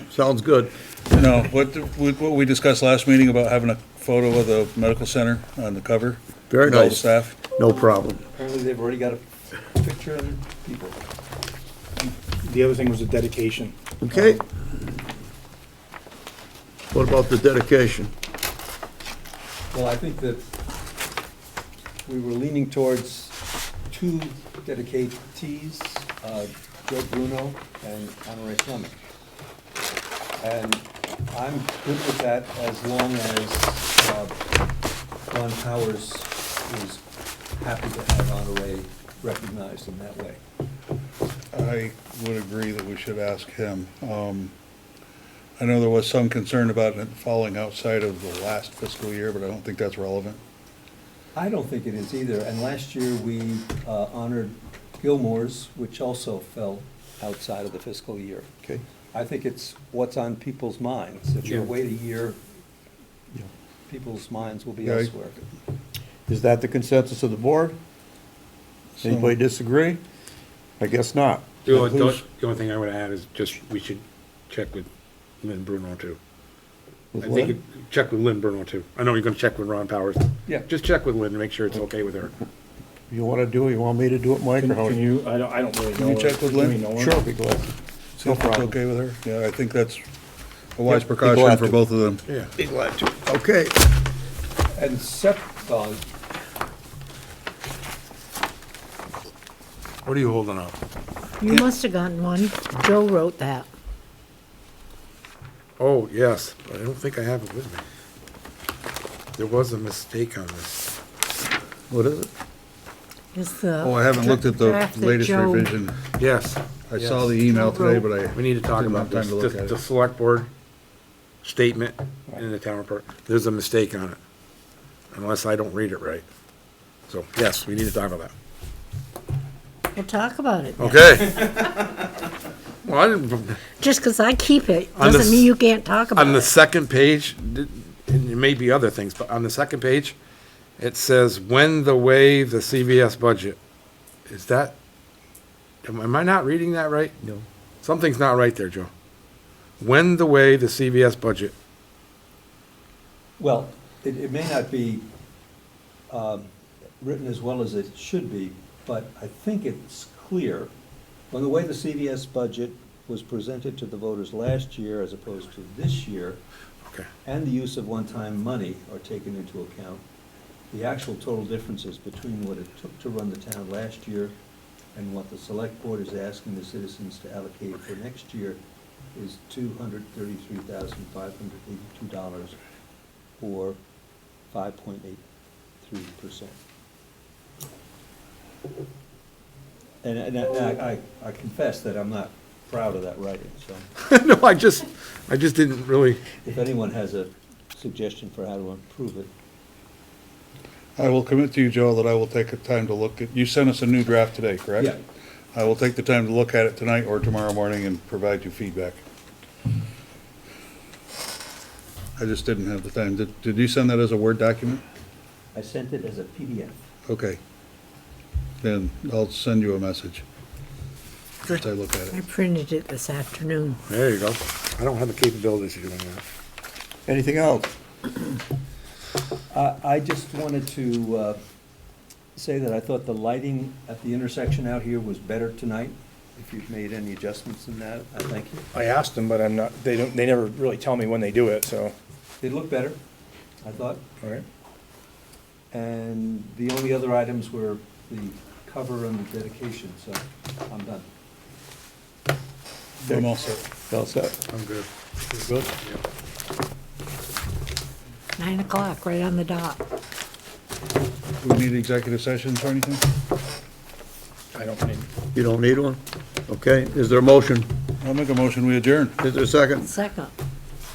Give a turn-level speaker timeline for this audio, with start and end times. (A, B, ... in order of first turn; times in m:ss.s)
0:00.1-0:00.7 A
0:01.1-0:07.4 B
0:06.5-0:08.2 A
0:08.3-0:11.0 C
0:12.2-0:14.4 D
0:14.0-0:14.4 A
0:16.9-0:18.1 A
0:19.7-0:20.4 C
0:22.0-0:23.4 C
0:23.9-0:29.0 C
0:30.4-0:34.3 C
0:35.3-0:37.0 C
0:37.6-0:40.4 C
0:41.5-0:44.5 B
0:45.6-0:50.4 B
0:51.3-0:58.5 C
0:59.1-1:02.4 C
1:03.9-1:05.4 C
1:04.8-1:05.1 B
1:06.3-1:07.8 A
1:09.0-1:09.3 B
1:09.0-1:10.0 A
1:10.8-1:11.5 A
1:11.6-1:14.9 E
1:11.7-1:12.2 B
1:15.4-1:16.2 E
1:17.1-1:17.6 A
1:17.2-1:22.3 E
1:23.1-1:25.0 A
1:24.6-1:27.2 D
1:26.0-1:26.8 B
1:27.0-1:27.7 A
1:28.2-1:30.1 B
1:28.2-1:28.7 A
1:30.7-1:32.2 B
1:30.9-1:31.8 A
1:32.6-1:33.7 A
1:34.7-1:36.0 C
1:40.0-1:40.8 E
1:41.4-1:43.7 F
1:45.8-1:47.8 E
1:49.4-1:50.9 E
1:51.9-1:52.3 A
1:53.3-1:55.7 F
1:53.8-1:56.0 B
1:56.2-1:57.1 E
1:56.9-1:59.8 B
1:57.4-1:58.1 F
1:58.3-2:00.5 E
2:01.4-2:04.2 E
2:05.1-2:06.2 E
2:07.1-2:08.3 E
2:09.9-2:11.2 F
2:10.8-2:11.8 E
2:12.8-2:13.6 E
2:13.8-2:16.5 F
2:14.9-2:15.5 E
2:16.1-2:20.2 E
2:20.8-2:23.6 E
2:24.3-2:24.7 E
2:25.8-2:27.1 E
2:27.8-2:28.9 E
2:29.8-2:31.5 E
2:33.4-2:35.0 C
2:36.1-2:36.5 C
2:37.0-2:40.7 C
2:41.3-2:46.4 C
2:47.2-2:50.0 C
2:50.7-2:54.3 C
2:54.9-2:58.6 C
2:59.1-3:02.6 C
3:03.4-3:03.8 C
3:04.5-3:05.2 C
3:05.8-3:06.5 C
3:10.0-3:13.8 C
3:14.0-3:16.2 E
3:16.4-3:19.3 C
3:21.0-3:25.0 B
3:25.5-3:29.0 B
3:32.2-3:34.8 B
3:35.5-3:36.8 C
3:37.1-3:37.4 B
3:38.6-3:40.2 B
3:41.4-3:42.2 B
3:42.1-3:43.8 F
3:43.9-3:46.2 E
3:47.1-3:47.7 A
3:49.5-3:51.4 C
3:52.4-3:58.6 C
3:58.7-4:01.9 D
4:02.4-4:03.0 C
4:03.6-4:04.0 C
4:05.7-4:11.0 C
4:13.0-4:13.6 B
4:13.9-4:14.4 A
4:14.5-4:14.9 E
4:15.3-4:15.6 A
4:18.4-4:19.8 F
4:21.4-4:23.0 B
4:24.5-4:25.1 D
4:25.3-4:27.7 A
4:28.0-4:29.2 B
4:29.2-4:29.9 A
4:29.8-4:30.3 F